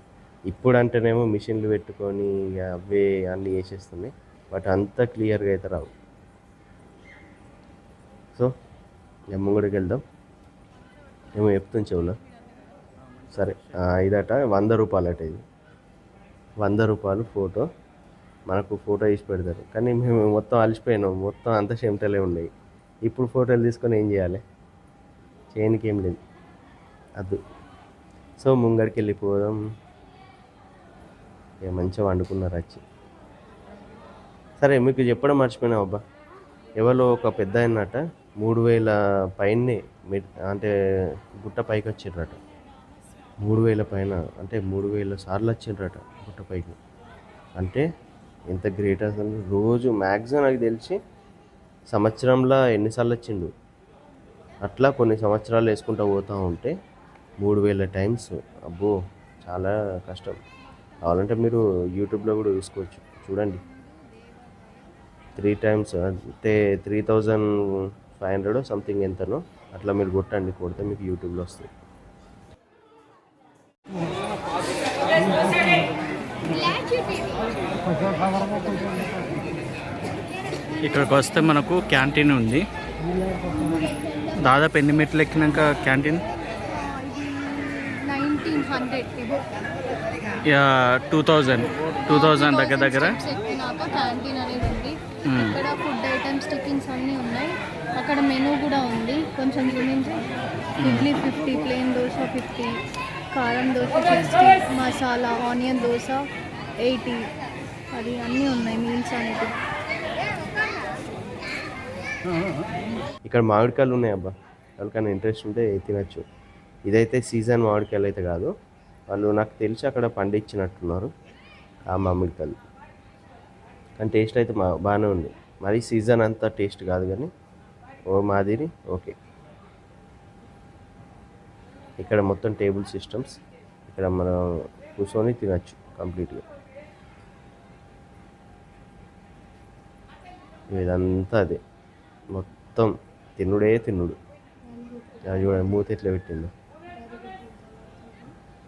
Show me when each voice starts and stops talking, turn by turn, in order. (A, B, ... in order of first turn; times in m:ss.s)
0:00.5-0:05.9 A
0:09.3-0:10.0 A
0:11.3-0:12.2 A
0:13.3-0:15.4 A
0:16.6-0:17.7 A
0:18.5-0:22.5 A
0:23.1-0:24.4 A
0:25.5-0:26.2 A
0:28.4-0:29.6 A
0:31.6-0:32.8 A
0:34.6-0:36.0 A
0:36.8-0:40.7 A
0:41.4-0:42.4 A
0:43.4-0:46.8 A
0:47.6-0:47.8 A
0:48.5-0:51.0 A
0:51.9-0:53.5 A
0:54.6-0:56.7 A
0:57.4-1:00.4 A
1:01.0-1:03.6 A
1:05.4-1:11.7 A
1:18.6-1:18.9 B
1:20.8-1:22.6 C
1:24.4-1:26.2 C
1:26.6-1:29.4 B
1:30.5-1:33.2 C
1:32.1-1:40.2 B
1:35.3-1:35.6 C
1:40.8-1:41.1 C
1:40.8-1:42.7 B
1:43.3-1:46.2 B
1:46.8-1:47.2 B
1:47.9-1:49.5 B
1:53.2-1:56.2 A
1:56.9-1:58.5 A
1:59.1-2:01.1 A
2:01.9-2:02.6 A
2:04.0-2:07.3 A
2:08.1-2:09.1 A
2:12.0-2:14.4 A
2:14.9-2:16.4 A
2:20.7-2:21.6 A
2:22.3-2:24.2 A
2:24.6-2:25.7 B
2:25.2-2:26.5 A
2:26.9-2:28.3 B